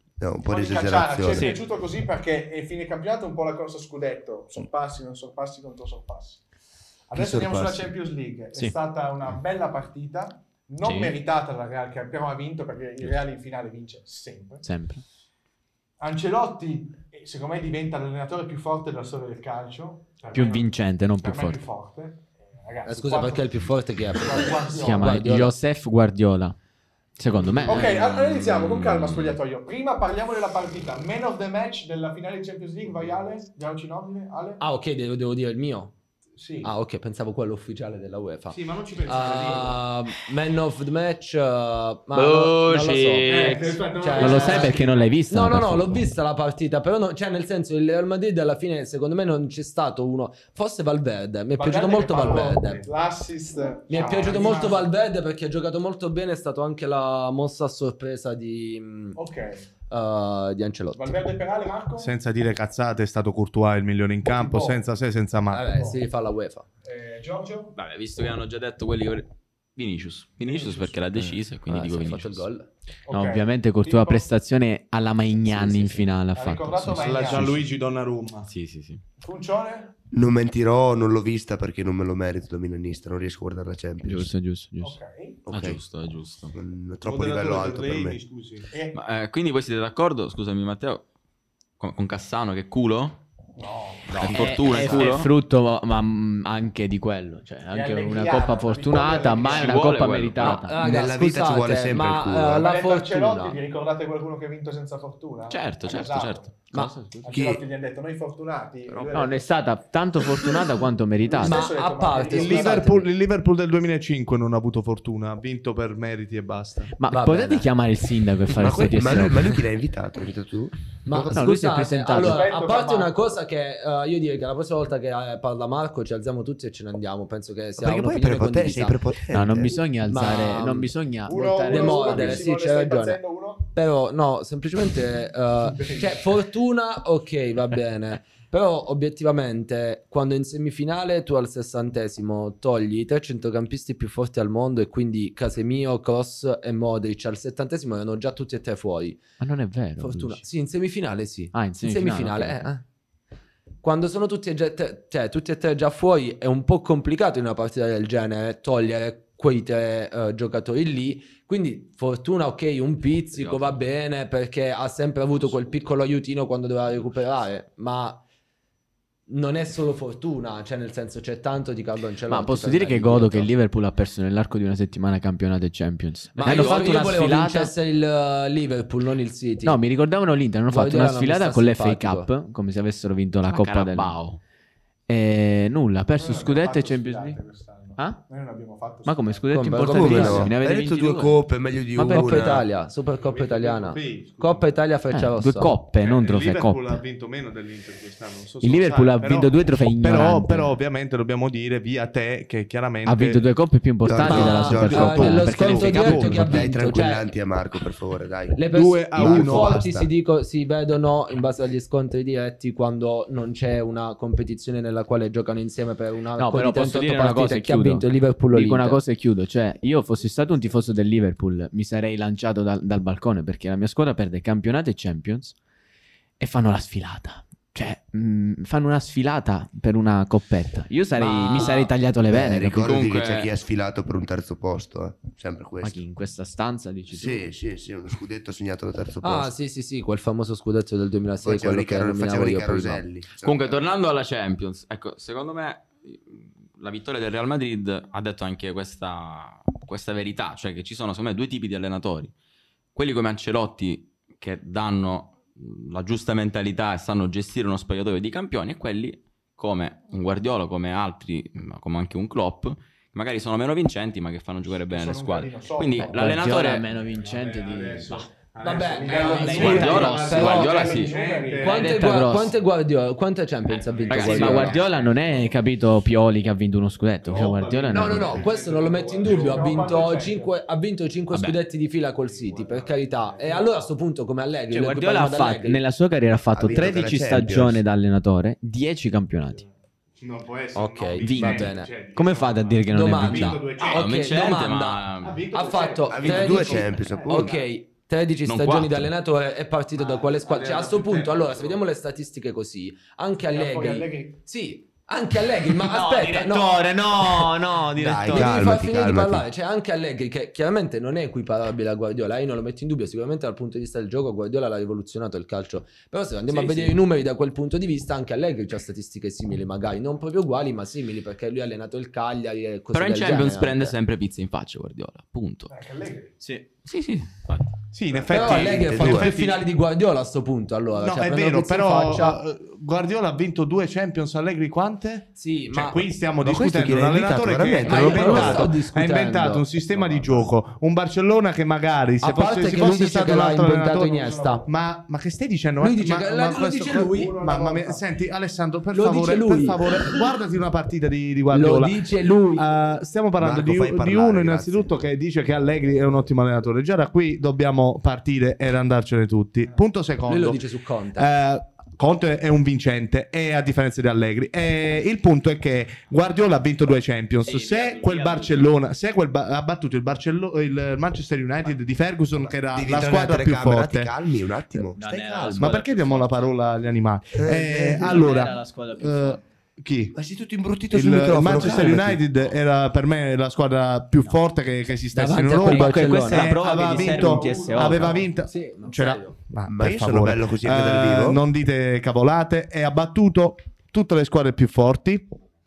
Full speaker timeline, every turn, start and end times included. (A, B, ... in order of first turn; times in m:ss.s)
0:00.2-0:01.6 A
0:00.4-0:06.4 B
0:07.1-0:14.6 B
0:07.2-0:07.9 C
0:10.8-0:11.1 D
0:14.6-0:15.0 C
0:16.0-0:23.6 B
0:20.3-0:21.6 C
0:22.8-0:25.5 E
0:24.2-0:25.2 B
0:24.8-0:26.6 C
0:27.2-0:28.0 C
0:27.6-0:34.6 B
0:27.8-0:29.4 D
0:34.6-0:35.9 E
0:36.4-0:36.7 B
0:36.6-0:44.8 E
0:38.5-0:39.8 F
0:42.1-0:43.8 D
0:43.3-0:45.0 F
0:44.1-0:44.7 B
0:44.2-0:46.1 C
0:45.3-0:52.8 E
0:51.6-0:54.9 B
0:52.3-0:52.8 F
0:53.9-0:59.2 E
0:54.0-0:54.6 F
0:59.2-0:59.7 B
0:59.9-1:01.2 E
1:01.0-1:02.1 B
1:02.0-1:05.7 F
1:04.2-1:04.8 B
1:05.5-1:06.7 E
1:05.7-1:06.0 B
1:06.8-1:07.7 B
1:07.8-1:12.5 D
1:10.4-1:11.0 B
1:11.7-1:12.7 E
1:13.1-1:14.3 B
1:13.1-1:17.7 C
1:15.5-1:16.0 E
1:16.3-1:17.6 B
1:16.9-1:18.5 F
1:18.5-1:19.0 D
1:19.2-1:19.9 B
1:20.1-1:24.3 A
1:24.0-1:25.0 C
1:24.8-1:25.4 B
1:25.5-1:25.8 A
1:25.5-1:26.6 D
1:26.5-1:28.2 A
1:27.0-1:28.7 F
1:28.7-1:29.0 B
1:28.9-1:31.0 D
1:31.8-1:33.2 D
1:33.6-1:34.2 B
1:34.1-1:35.3 D
1:34.2-1:35.0 A
1:34.2-1:40.8 C
1:37.7-1:39.8 B
1:39.5-1:40.6 D
1:40.4-1:43.6 E
1:40.8-1:42.6 A
1:42.6-1:46.6 B
1:45.5-1:46.5 D
1:46.7-1:47.4 C
1:47.2-1:49.4 B
1:47.3-1:47.6 A
1:49.0-1:51.7 C
1:51.3-1:52.9 B
1:51.4-1:53.1 E
1:52.2-1:56.9 F
1:57.0-1:59.5 C
1:57.1-1:57.7 E
1:58.5-2:01.5 A
2:01.1-2:09.0 E
2:01.2-2:02.5 C
2:02.1-2:03.2 B
2:07.8-2:09.8 A
2:09.3-2:12.4 C
2:10.1-2:10.9 E
2:11.3-2:13.6 B
2:11.7-2:29.2 E
2:15.7-2:16.1 B
2:29.4-2:30.4 C
2:30.0-2:32.8 E
2:31.5-2:32.7 C
2:33.8-2:48.2 E
2:43.3-2:43.8 D
2:49.3-2:53.5 E
2:52.3-2:57.7 C
2:56.4-2:59.8 E
2:56.4-2:57.1 D
2:59.6-3:04.2 C
3:00.7-3:02.3 E
3:03.5-3:04.4 D
3:05.1-3:07.4 C
3:06.2-3:09.7 B
3:08.0-3:08.2 C
3:09.0-3:11.4 C
3:09.5-3:10.5 E
3:09.9-3:12.7 A
3:12.0-3:15.8 E
3:13.2-3:14.7 F
3:15.1-3:17.0 C
3:16.0-3:23.5 F
3:18.6-3:20.8 C
3:23.0-3:26.7 C
3:24.0-3:25.5 A
3:24.2-3:27.3 E
3:24.4-3:26.6 F
3:26.4-3:30.0 A
3:28.6-3:39.0 E
3:28.7-3:30.0 F
3:36.4-3:45.6 C
3:46.4-3:52.9 C
3:51.2-3:51.9 E
3:52.3-3:56.0 A
3:52.8-3:53.5 D
3:55.8-3:57.5 C
3:57.1-3:59.5 A
3:59.2-4:03.0 E
4:01.4-4:03.8 A
4:03.4-4:12.3 D
4:12.9-4:26.8 D
4:24.8-4:26.4 B
4:26.0-4:28.3 C
4:27.0-4:32.0 F
4:28.6-4:30.9 E
4:29.1-4:32.0 B
4:29.1-4:30.5 C
4:29.5-4:31.1 D
4:31.6-4:34.8 E
4:31.6-4:32.6 C
4:33.8-4:35.7 F
4:34.1-4:34.7 D
4:34.2-4:38.5 C
4:37.3-4:40.2 F
4:37.9-4:45.8 E
4:39.2-4:40.5 B
4:41.3-4:41.6 D
4:42.2-4:43.7 F
4:44.7-4:49.6 C
4:46.5-4:47.8 A
4:50.2-4:54.2 F
4:50.7-4:51.9 E
4:51.2-4:53.6 C
4:52.9-5:07.6 E
4:53.8-4:55.4 D
4:55.2-4:57.6 F
4:56.1-4:57.5 A
4:58.5-4:59.1 D
5:00.0-5:01.8 F
5:03.5-5:04.3 B
5:05.8-5:08.5 C
5:08.0-5:09.4 A
5:08.2-5:24.0 E
5:16.5-5:17.0 D
5:22.9-5:25.7 D
5:25.7-5:26.4 B
5:26.8-5:27.8 D
5:27.9-5:29.6 F
5:28.3-5:32.4 E
5:28.6-5:29.3 A
5:31.0-6:00.6 F
5:35.4-5:36.1 E
5:36.4-5:38.8 A
5:37.8-5:40.5 E
5:42.2-5:44.7 E
5:44.1-5:44.7 B
5:45.8-5:47.3 E
5:47.1-5:48.0 B
5:48.9-5:50.3 E
5:51.5-5:52.7 E
5:53.4-5:54.9 A
6:00.3-6:01.3 E
6:01.2-6:14.1 F
6:07.4-6:08.6 D
6:07.9-6:08.5 C
6:12.4-6:15.7 A
6:14.9-6:16.5 C
6:15.4-6:15.8 D
6:15.6-6:20.2 F
6:17.4-6:18.4 A
6:17.9-6:19.4 C
6:20.1-6:22.3 A
6:20.9-6:35.3 F
6:25.1-6:27.1 E
6:25.5-6:28.3 C
6:26.9-6:28.3 B
6:28.4-6:29.4 E
6:29.7-6:31.4 A